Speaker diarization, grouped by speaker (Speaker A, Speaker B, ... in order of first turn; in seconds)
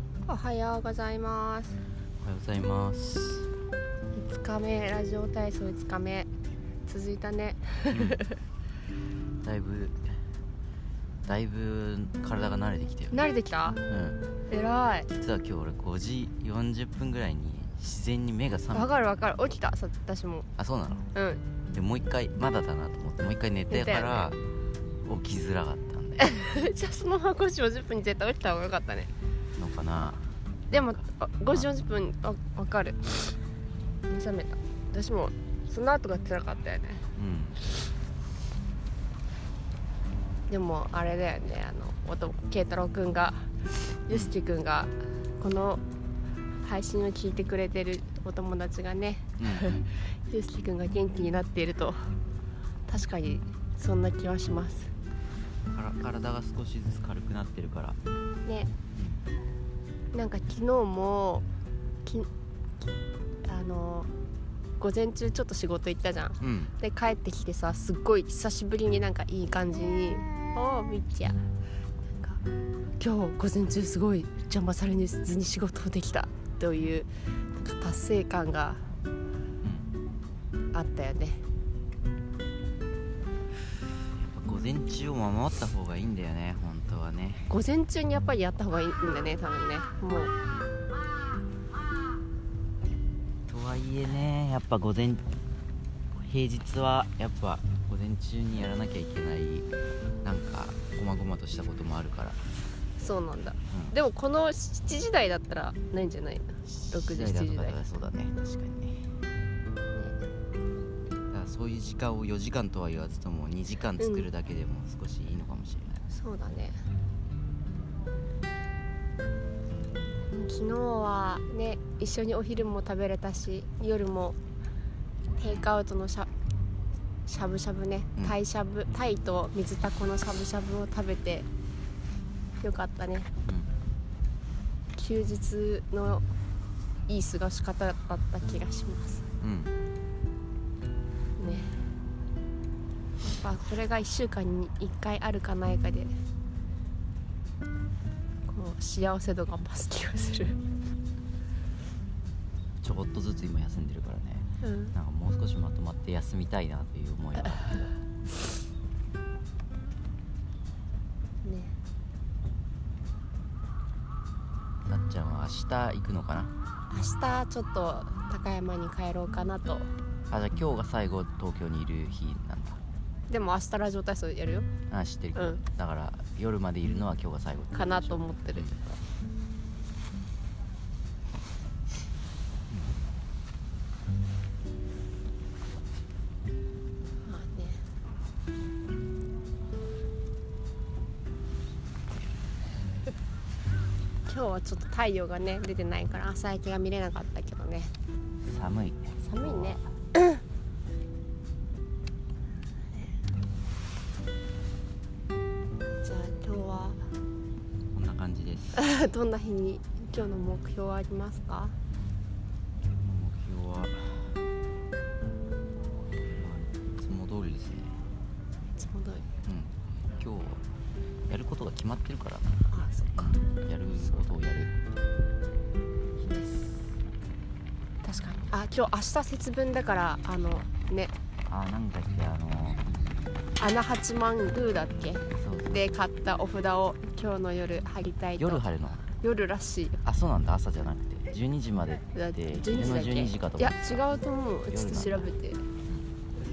Speaker A: 0.2-1.8, 4.1-6.3, 6.8-8.3, 13.1-13.8, 14.5-15.1, 18.7-20.5, 21.1-21.4, 23.7-24.3, 26.2-29.1, 30.7-33.4, 34.1-37.0, 40.5-43.5, 44.1-45.8, 46.6-52.1, 52.9-54.9, 58.4-58.7, 60.1-61.5, 63.4-64.1, 64.8-71.4, 72.1-72.4, 73.0-78.9, 80.7-81.4, 87.5-90.3, 103.0-107.8, 109.9-110.2, 114.0-114.3, 116.1-116.7, 120.3-124.4, 125.4-126.3, 127.3-131.5, 132.6-133.3, 134.9-136.2, 137.1-139.2, 141.4-141.8, 143.2-146.2, 148.5-150.6, 154.6-154.9, 161.4-161.7, 166.9-169.9, 173.3-174.7, 175.3-175.6, 177.7-179.0, 187.2-187.8, 194.2-197.9, 199.2-200.4, 206.0-207.0, 208.7-211.7, 218.8-219.2, 222.7-223.4, 226.2-226.8, 228.0-231.1, 233.6-238.6, 239.2-240.0, 242.1-245.6
Speaker B: 2.2-3.5, 7.9-8.2, 9.4-10.1, 11.2-13.2, 13.9-14.2, 15.1-18.9, 20.6-21.1, 21.7-24.4, 25.0-26.3, 29.6-30.8, 37.1-37.6, 49.4-49.7, 55.7-58.0, 59.0-59.2, 66.4-66.7, 79.6-79.9, 84.2-87.5, 93.5-95.2, 96.1-99.7, 100.2-102.4, 103.7-104.0, 106.9-109.1, 111.3-116.1, 139.4-139.7, 152.8-157.8, 164.8-166.5, 170.3-172.8, 174.9-178.7, 182.7-183.0, 198.4-199.8, 207.9-208.8, 212.8-214.4, 216.2-218.0, 219.4-220.6, 221.3-222.6, 223.1-224.8, 231.5-233.2, 235.3-235.9, 238.4-239.1, 240.0-244.1, 244.7-245.3